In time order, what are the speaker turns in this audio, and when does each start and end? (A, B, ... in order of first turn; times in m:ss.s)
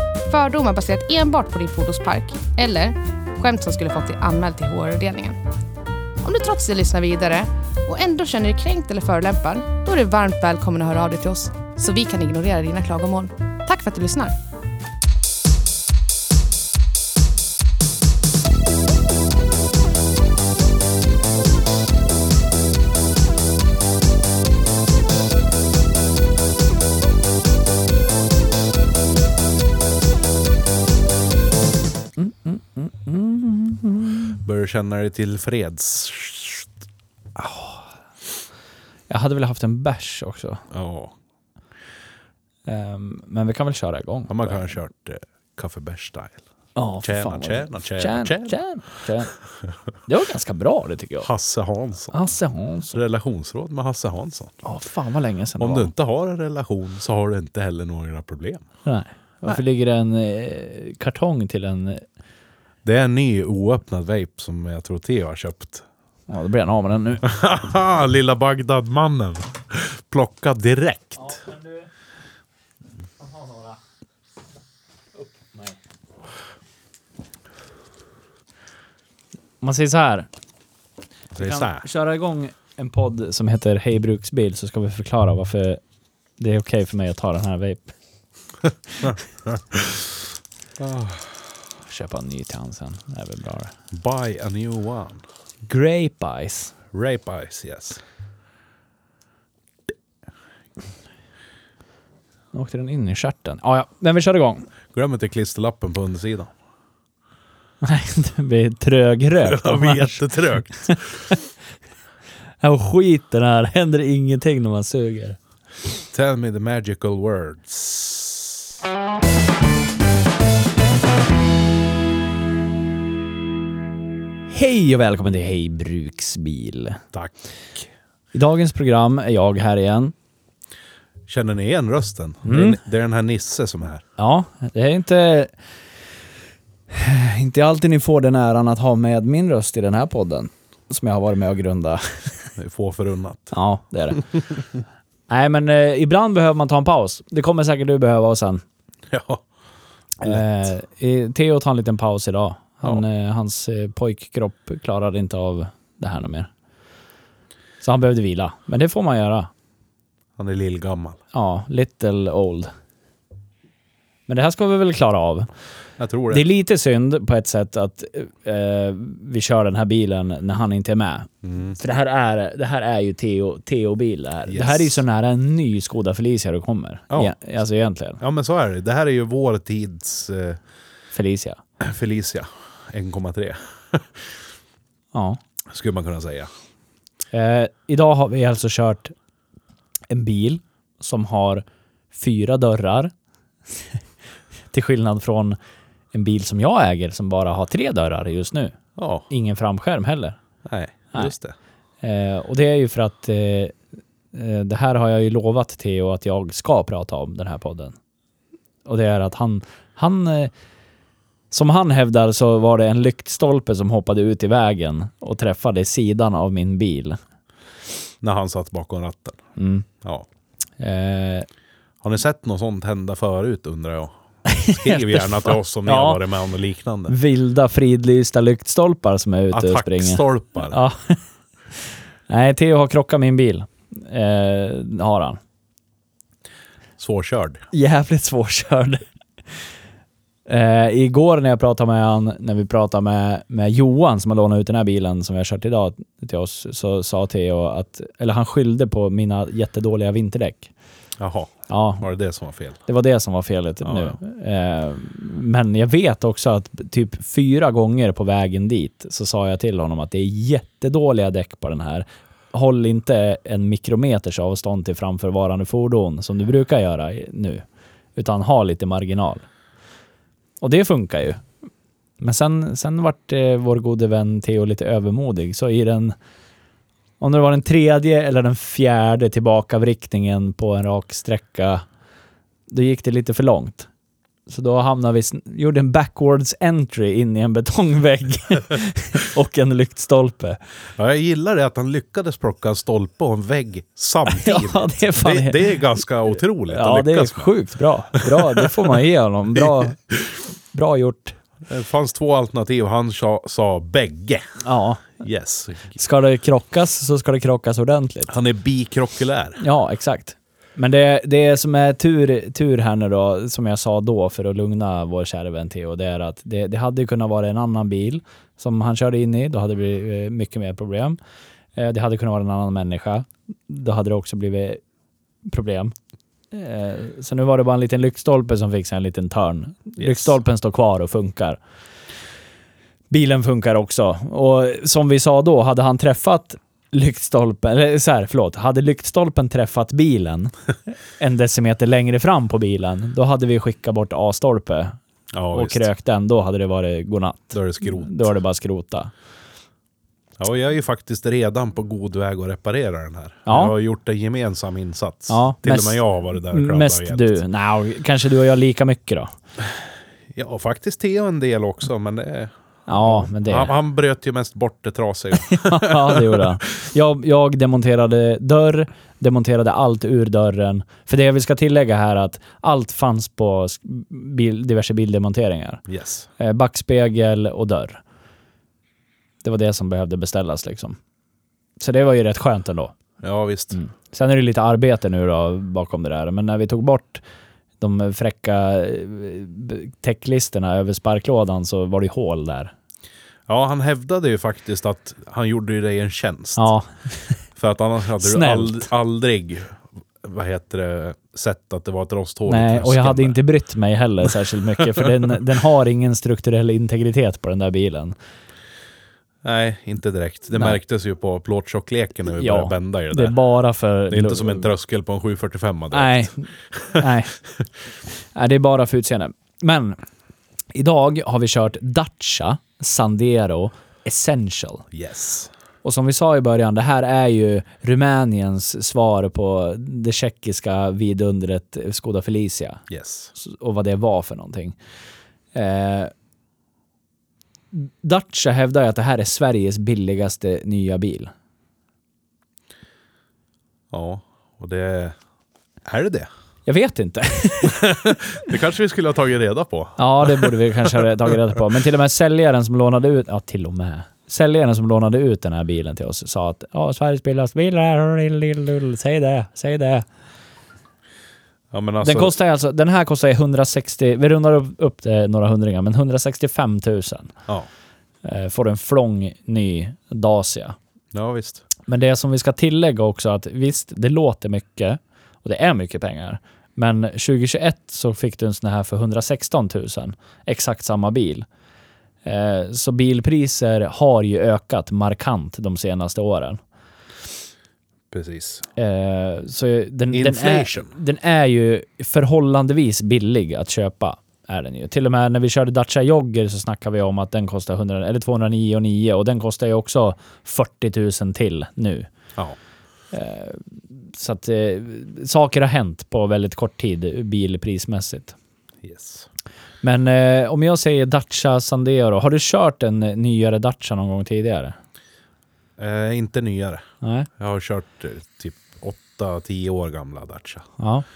0:00.3-0:05.4 A
0:06.2-0:14.4 A
0:32.2-0:34.4 B
0:34.4-0:36.7 C
0:37.4-0:37.9 B
0:39.1-0:40.6 B
0:40.7-0:41.2 C
0:42.7-0:44.8 B
0:44.3-0:46.4 C
0:46.8-0:49.3 B
0:47.0-0:48.6 C
0:50.1-0:51.3 B
0:51.2-0:52.2 C
0:52.1-0:53.0 B
0:52.9-0:54.6 C
0:54.6-0:55.9 B
0:55.6-0:58.7 C
0:58.8-1:02.0 B
1:02.8-1:05.9 C
1:06.3-1:07.3 B
1:07.2-1:11.4 C
1:11.2-1:11.9 B
1:13.2-1:13.8 B
1:15.2-1:15.8 B
1:19.6-1:20.3 B
1:21.4-1:21.8 C
1:21.4-1:25.8 B
1:26.4-1:27.9 B
1:29.0-1:30.1 C
1:30.8-1:31.4 C
1:31.9-1:33.7 B
1:33.9-1:35.2 C
1:35.7-1:36.8 B
1:36.9-1:38.0 C
1:42.5-1:44.7 B
1:44.9-1:46.5 C
1:47.8-1:51.4 B
1:49.4-1:51.2 C
1:52.6-1:55.4 B
1:56.1-1:58.6 C
2:04.5-2:07.0 B
2:07.1-2:07.9 C
2:08.3-2:10.1 B
2:11.3-2:14.0 C
2:12.4-2:12.8 B
2:14.2-2:15.5 B
2:16.9-2:22.5 B
2:22.6-2:23.6 C
2:23.5-2:24.3 B
2:25.3-2:28.6 B
2:29.1-2:29.4 C
2:30.2-2:36.5 B
2:37.8-2:39.5 B
2:40.4-2:41.2 C
2:41.3-2:42.7 B
2:44.3-2:45.5 B
2:46.0-2:46.5 C
2:46.3-2:58.2 B
2:51.4-2:51.8 C
2:54.5-2:55.0 C
2:58.2-3:00.6 C
3:01.1-3:01.6 B
3:01.8-3:04.4 C
3:05.1-3:05.4 B
3:05.7-3:06.5 C
3:07.3-3:09.1 B
3:10.1-3:13.1 B
3:14.7-3:15.6 B
3:16.1-3:18.8 B
3:19.0-3:19.3 C
3:19.3-3:20.4 B
3:20.6-3:21.6 C
3:22.0-3:23.8 B
3:24.3-3:28.0 B
3:28.8-3:30.5 B
3:31.5-3:37.2 B
3:38.2-3:39.4 C
3:39.6-3:39.9 B
3:40.8-3:41.5 B
3:42.0-3:47.2 C
3:44.5-3:46.2 B
3:47.1-3:51.2 B
3:49.5-3:50.8 C
3:52.3-3:55.4 B
3:57.0-3:57.6 C
3:57.7-3:59.0 B
4:00.5-4:10.7 B
4:11.2-4:12.8 C
4:11.7-4:12.0 B
4:12.9-4:27.6 B
4:13.8-4:14.2 C
4:28.2-4:29.4 B
4:30.6-4:31.4 B
4:32.2-4:36.2 B
4:37.2-4:41.8 B
4:42.7-4:43.9 B
4:44.5-4:50.6 B
4:51.0-4:57.5 C
4:54.3-4:55.9 B
4:56.7-5:00.0 B
4:58.2-4:58.9 C
4:59.6-5:00.4 C
5:00.7-5:01.4 B
5:01.7-5:04.6 C
5:04.6-5:05.2 B
5:05.2-5:06.0 C
5:06.0-5:08.4 B
5:08.3-5:09.6 C
5:09.6-5:21.2 B
5:21.8-5:24.8 B
5:25.5-5:25.9 B
5:26.5-5:31.6 B
5:30.0-5:30.3 C
5:33.1-5:40.5 B
5:41.1-5:45.0 B
5:45.3-5:45.9 C
5:45.5-5:49.1 B
5:47.5-5:48.4 C
5:50.4-5:57.4 C
5:53.5-5:53.8 B
5:55.3-5:59.3 B
6:00.3-6:06.6 C
6:02.9-6:03.7 B
6:05.4-6:15.8 B
6:15.9-6:16.3 C
6:16.4-6:18.0 B
6:19.4-6:21.0 B
6:21.8-6:23.0 B
6:23.2-6:23.8 C
6:23.7-6:27.2 B
6:27.8-6:32.7 B
6:33.5-6:36.7 C
6:36.6-6:37.3 B
6:37.6-6:43.4 C
6:38.2-6:38.9 B
6:42.5-6:48.2 B
6:44.8-6:45.1 C
6:49.4-6:53.4 C
6:52.3-6:54.7 B
6:54.1-6:57.0 C
6:55.9-6:57.4 B
6:58.2-7:00.0 B
7:00.8-7:04.9 B
7:04.9-7:05.5 C
7:05.8-7:12.8 B
7:12.9-7:13.3 C
7:13.4-7:14.8 B
7:15.5-7:16.1 B
7:17.7-7:21.3 B
7:23.9-7:25.2 C
7:25.8-7:26.3 C
7:26.7-7:28.0 B
7:27.6-7:31.6 C
7:30.0-7:40.1 B
7:41.7-7:42.3 C
7:42.0-7:47.3 B
7:48.2-7:50.8 B
7:51.1-7:51.6 C
7:51.9-8:01.5 B
8:02.2-8:06.6 B
8:08.1-8:08.7 C
8:08.8-8:22.1 B
8:10.1-8:10.9 C
8:23.1-8:28.4 B
8:28.8-8:29.3 C
8:29.8-8:34.8 B
8:35.8-8:36.9 C
8:37.0-8:37.3 B
8:37.4-8:40.7 C
8:40.8-8:41.0 B